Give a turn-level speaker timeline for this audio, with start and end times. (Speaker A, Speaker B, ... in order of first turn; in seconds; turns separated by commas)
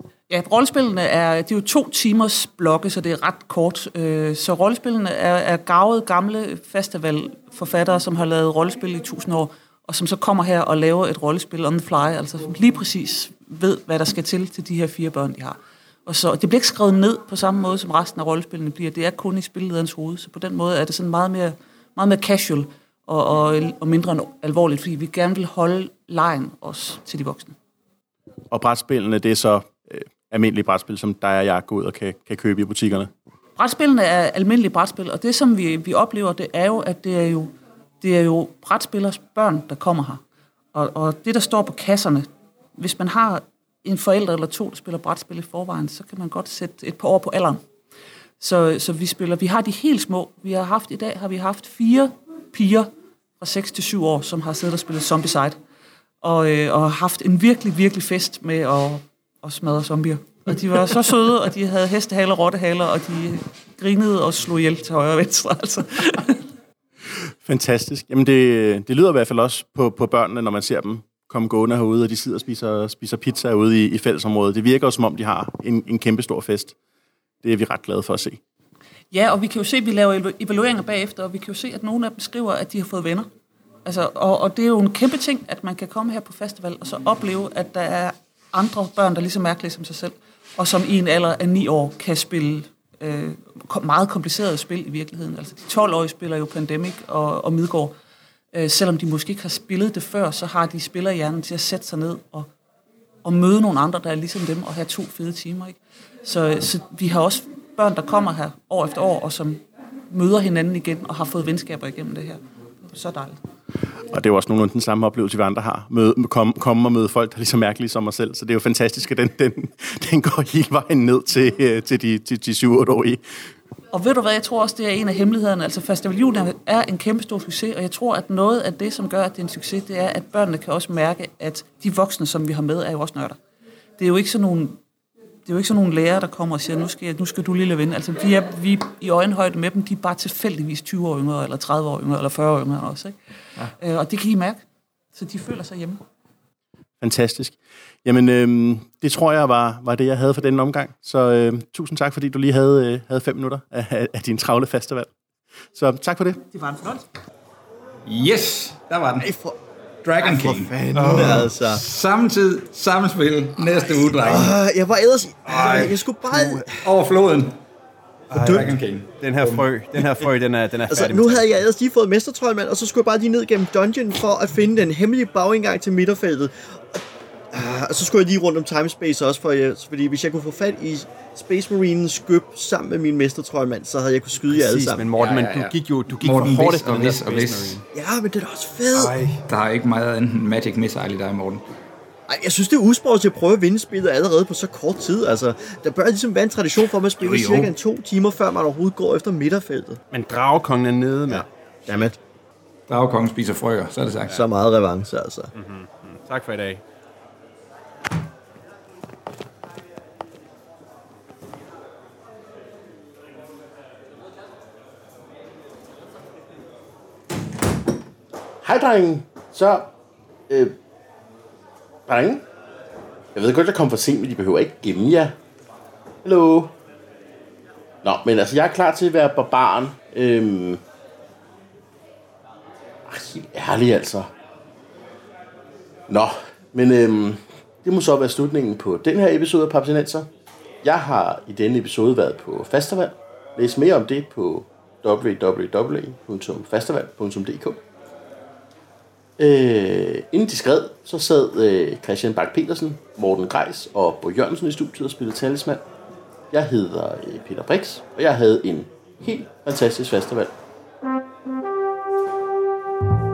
Speaker A: 0.3-27.6, Speaker B: 28.5-33.1, Speaker A: 33.6-40.2, Speaker A: 40.7-47.6, Speaker A: 48.4-55.6, Speaker A: 56.2-66.5, Speaker B: 67.2-76.8, Speaker B: 77.4-78.4, Speaker A: 79.1-83.3, Speaker A: 83.8-97.9, Speaker A: 98.5-102.5, Speaker A: 103.2-113.4, Speaker B: 114.1-123.2, Speaker A: 123.9-133.4, Speaker A: 134.0-134.8, Speaker A: 135.4-144.6, Speaker A: 145.1-146.0, Speaker B: 147.0-155.1, Speaker B: 155.7-156.4, Speaker A: 156.6-157.0, Speaker C: 158.1-159.3, Speaker D: 159.2-159.6, Speaker C: 160.0-164.6, Speaker D: 160.2-161.8, Speaker D: 164.2-166.7, Speaker C: 165.5-166.0, Speaker C: 166.7-167.6, Speaker E: 168.3-168.7, Speaker C: 168.3-169.7, Speaker E: 169.2-171.6, Speaker D: 170.9-177.0, Speaker D: 177.5-185.1, Speaker E: 184.5-187.8, Speaker C: 185.1-187.8, Speaker D: 187.9-189.1, Speaker E: 189.0-189.4, Speaker C: 189.5-191.7, Speaker D: 192.3-200.0, Speaker C: 197.2-197.8, Speaker E: 200.1-201.5, Speaker D: 201.3-202.2, Speaker C: 202.9-204.4, Speaker D: 204.3-205.5, Speaker E: 205.6-206.8, Speaker F: 218.6-219.9, Speaker F: 220.5-220.8, Speaker F: 222.1-222.5, Speaker F: 223.3-225.4, Speaker F: 226.2-226.8, Speaker F: 228.0-230.8, Speaker F: 233.1-234.3, Speaker F: 236.1-240.3, Speaker F: 240.8-247.8, Speaker F: 249.4-255.9, Speaker F: 256.5-260.6